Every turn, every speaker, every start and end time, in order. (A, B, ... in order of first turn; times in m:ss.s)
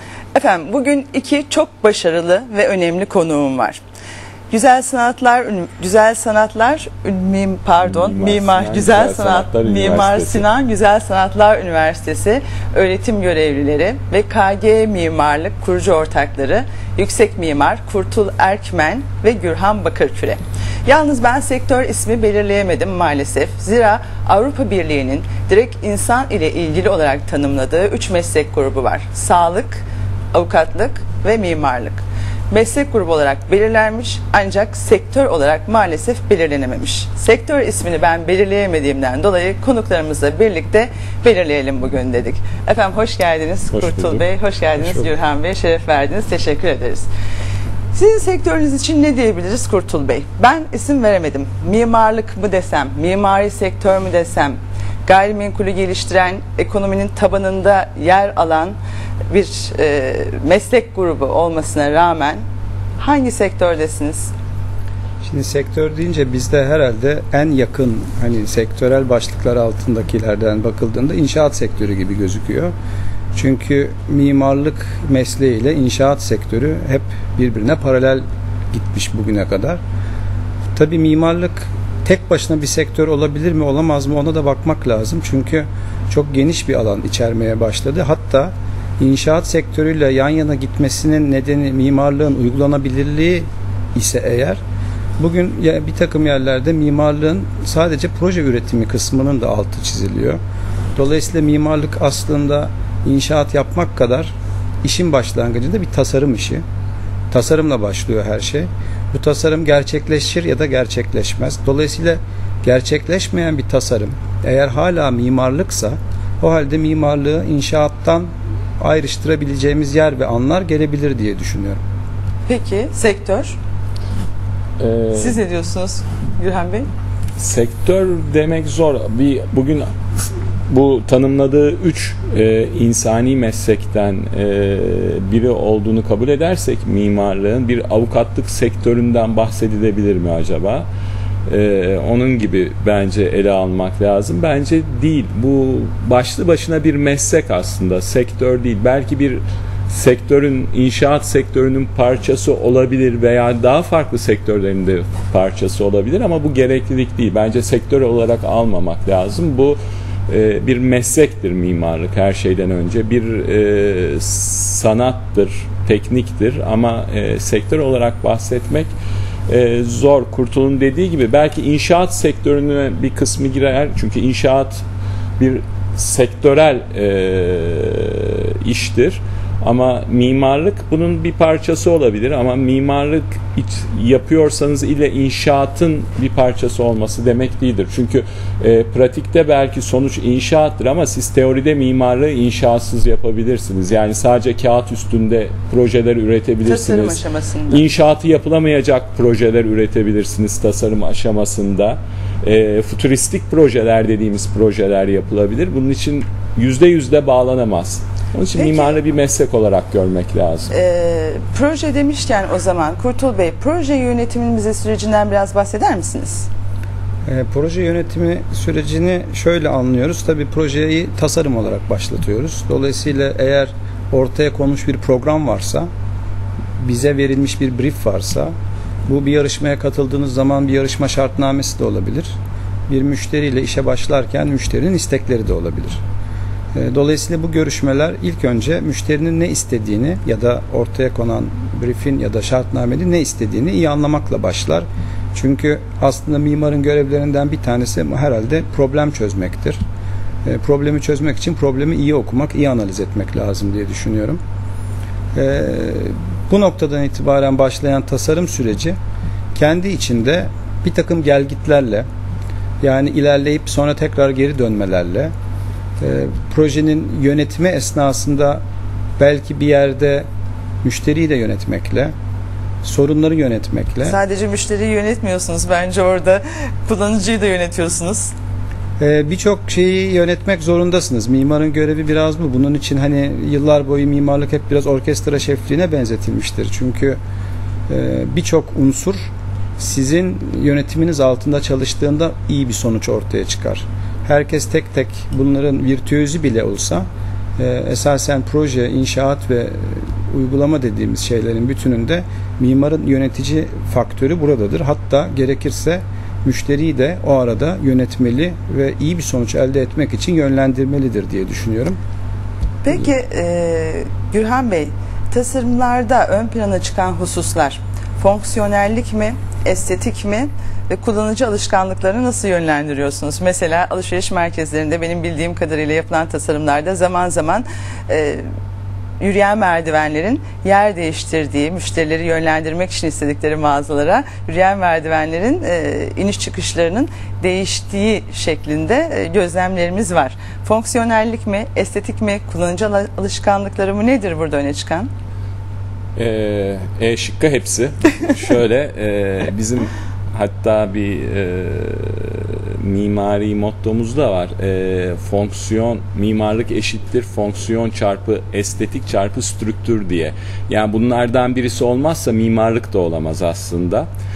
0:00.3-0:03.8 A
0:04.5-0:47.1 A
0:07.8-0:10.4 B
0:43.7-0:44.2 B
0:47.9-0:58.8 A
0:59.3-1:02.4 A
1:03.0-1:04.3 A
1:05.2-1:12.7 C
1:13.3-1:19.8 C
1:20.8-1:34.6 C
1:35.2-1:40.4 C
1:41.0-1:46.6 C
1:47.3-2:01.8 C
2:02.5-2:03.6 A
2:04.8-2:05.4 B
2:05.1-2:06.9 A
2:07.4-2:20.8 B
2:21.5-2:48.9 B
2:49.5-2:54.8 B
2:55.4-3:30.7 B
3:16.6-3:17.8 A
3:28.6-3:29.0 A
3:30.7-3:36.5 A
3:37.2-3:45.9 C
3:46.8-3:48.5 C
3:49.0-3:52.3 C
3:52.9-3:56.0 C
3:56.7-4:09.8 C
4:10.4-4:14.4 C
4:15.3-4:19.0 C
4:19.5-4:22.1 C
4:22.8-4:25.3 C
4:26.0-4:28.6 C
4:29.2-4:30.3 C
4:30.8-4:32.1 C
4:32.8-4:34.2 C
4:34.0-4:38.3 A
4:39.0-4:47.2 C
4:47.9-5:12.0 C
5:12.8-5:28.4 A
5:29.2-5:45.1 A
5:46.2-6:04.1 B